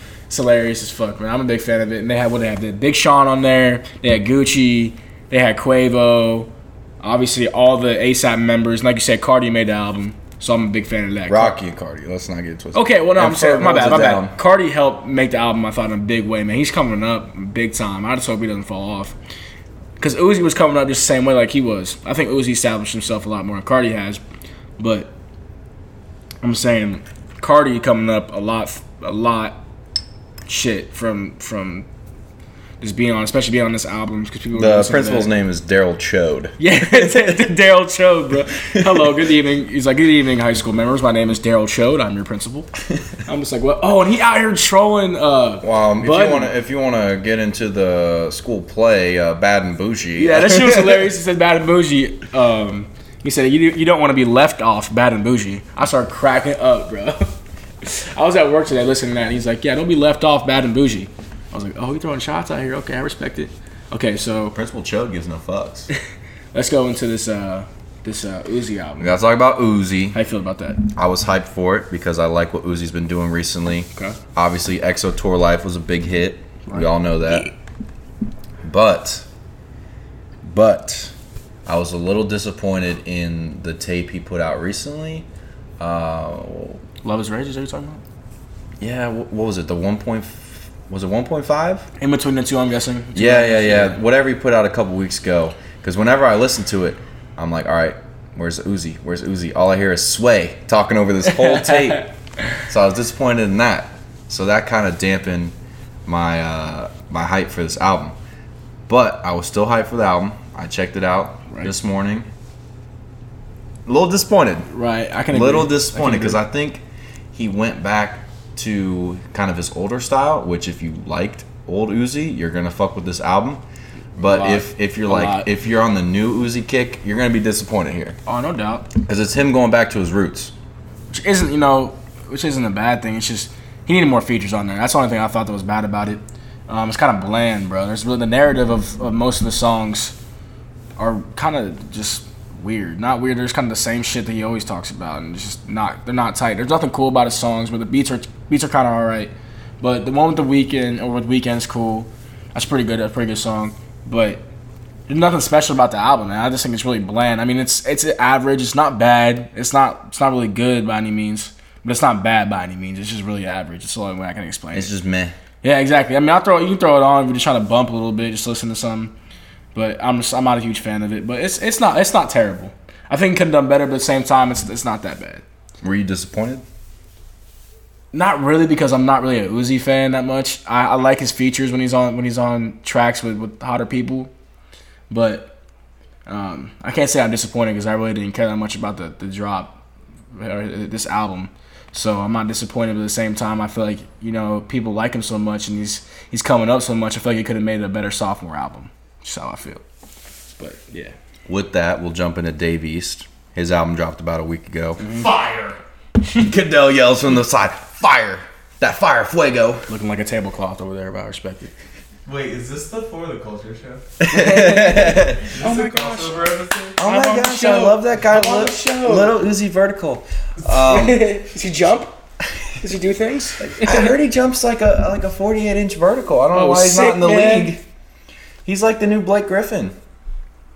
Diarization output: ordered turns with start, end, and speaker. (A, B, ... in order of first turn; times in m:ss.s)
0:00.3-0:06.5 A
0:07.0-0:11.6 A
0:11.3-0:14.4 B
0:12.7-0:19.1 A
0:20.0-0:24.2 A
0:24.8-0:25.1 A
0:26.4-0:29.6 A
0:30.5-0:31.9 A
0:32.8-0:35.3 A
0:34.5-0:37.5 B
0:36.6-0:42.7 A
0:38.8-0:39.0 B
0:43.3-0:46.5 A
0:45.6-0:51.1 B
0:50.2-0:57.3 A
0:57.8-1:04.6 A
1:04.5-1:05.9 B
1:06.5-1:09.2 A
1:09.0-1:10.2 B
1:10.1-1:10.8 A
1:11.0-1:17.5 B
1:16.7-1:17.5 A
1:18.6-1:19.2 B
1:20.4-1:21.1 B
1:21.7-1:25.3 B
1:25.8-1:26.8 B
1:27.0-1:28.0 A
1:28.8-1:31.9 B
1:32.0-1:34.0 A
1:33.2-1:42.0 B
1:41.3-1:42.1 A
1:42.7-1:45.6 B
1:46.1-1:48.2 B
1:48.9-1:52.3 B
1:53.9-1:54.7 B
1:54.7-1:56.4 A
1:55.3-1:56.8 B
1:57.3-2:03.6 B
2:04.2-2:08.2 B
2:04.2-2:05.5 A
2:08.3-2:08.9 A
2:09.0-2:10.5 B
2:11.1-2:20.2 A
2:21.0-2:34.4 A
2:35.1-2:44.9 A
2:44.7-2:45.4 B
2:45.6-2:49.1 A
2:49.7-2:55.4 A
2:55.8-2:56.6 B
2:58.1-3:04.3 A
3:05.1-3:05.5 A
3:06.3-3:09.8 A
3:10.3-3:19.8 A
3:20.6-3:21.2 A
3:21.5-3:25.0 B
3:25.0-3:25.3 A
3:25.0-3:25.8 C
3:26.3-3:29.9 B
3:29.9-3:31.7 A
3:32.3-3:34.0 C
3:34.2-3:35.5 B
3:34.3-3:36.4 A
3:35.5-3:37.0 C
3:37.0-3:41.2 B
3:37.0-3:39.3 A
3:40.8-3:42.2 A
3:42.8-3:44.1 A
3:43.6-3:47.8 B
3:46.5-3:47.7 A
3:48.6-3:50.0 B